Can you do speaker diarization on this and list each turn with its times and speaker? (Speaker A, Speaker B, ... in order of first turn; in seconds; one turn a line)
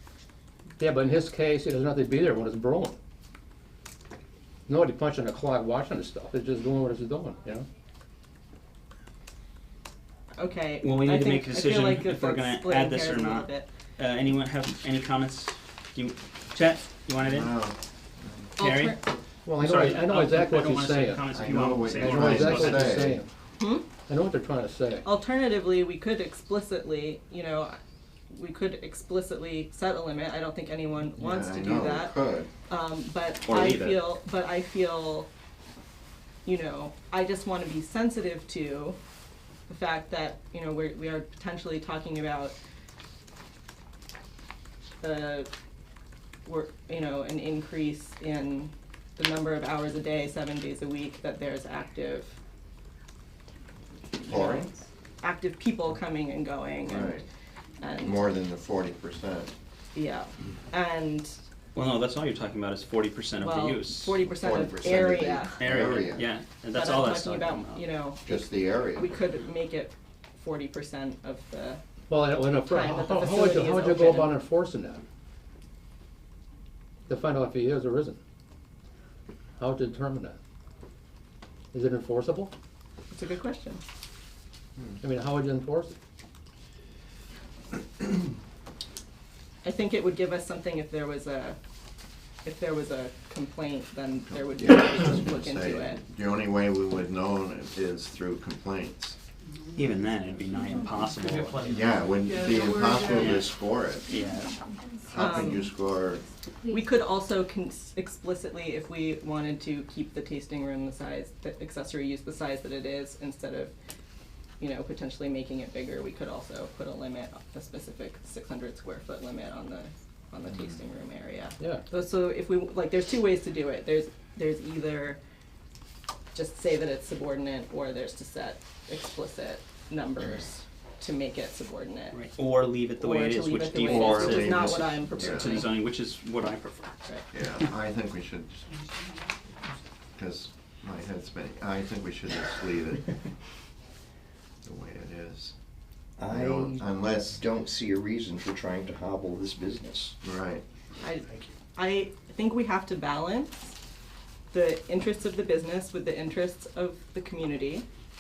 Speaker A: 0.8-3.0
Speaker A: 4.7-7.7
Speaker B: 10.4-13.7
Speaker C: 10.8-17.5
Speaker D: 17.2-18.5
Speaker B: 18.6-19.1
Speaker C: 18.6-19.0
Speaker A: 19.4-21.2
Speaker C: 19.6-22.9
Speaker D: 21.3-23.2
Speaker A: 21.9-23.3
Speaker B: 23.6-23.9
Speaker A: 24.1-25.1
Speaker B: 25.0-27.8
Speaker B: 28.3-35.3
Speaker D: 31.2-32.5
Speaker C: 33.5-34.0
Speaker B: 36.5-39.0
Speaker B: 39.7-42.5
Speaker B: 45.0-45.5
Speaker B: 46.5-52.4
Speaker B: 54.2-57.2
Speaker D: 54.2-54.7
Speaker D: 56.9-57.2
Speaker B: 57.8-58.3
Speaker D: 58.0-59.5
Speaker B: 60.0-61.4
Speaker C: 61.8-64.2
Speaker B: 63.4-65.6
Speaker D: 64.2-66.3
Speaker C: 65.6-67.8
Speaker B: 66.7-71.8
Speaker D: 68.2-69.1
Speaker A: 72.1-75.0
Speaker B: 72.5-74.4
Speaker A: 77.1-78.2
Speaker A: 79.6-80.4
Speaker A: 81.7-82.5
Speaker B: 83.1-83.8
Speaker A: 85.0-85.9
Speaker B: 89.6-91.6
Speaker B: 92.4-96.0
Speaker D: 94.3-99.2
Speaker C: 99.8-101.8
Speaker D: 101.6-104.1
Speaker C: 103.1-103.6
Speaker C: 104.1-104.6
Speaker D: 105.1-106.2
Speaker B: 105.1-105.7
Speaker B: 106.7-113.7
Speaker B: 114.6-125.2
Speaker B: 126.3-132.2
Speaker C: 132.1-137.6
Speaker B: 133.0-135.7
Speaker D: 133.8-135.6
Speaker D: 137.3-138.7
Speaker D: 140.2-143.2
Speaker D: 144.6-145.6
Speaker E: 146.2-150.2
Speaker D: 146.3-147.4
Speaker D: 150.2-150.6
Speaker B: 151.0-153.8
Speaker B: 154.5-157.9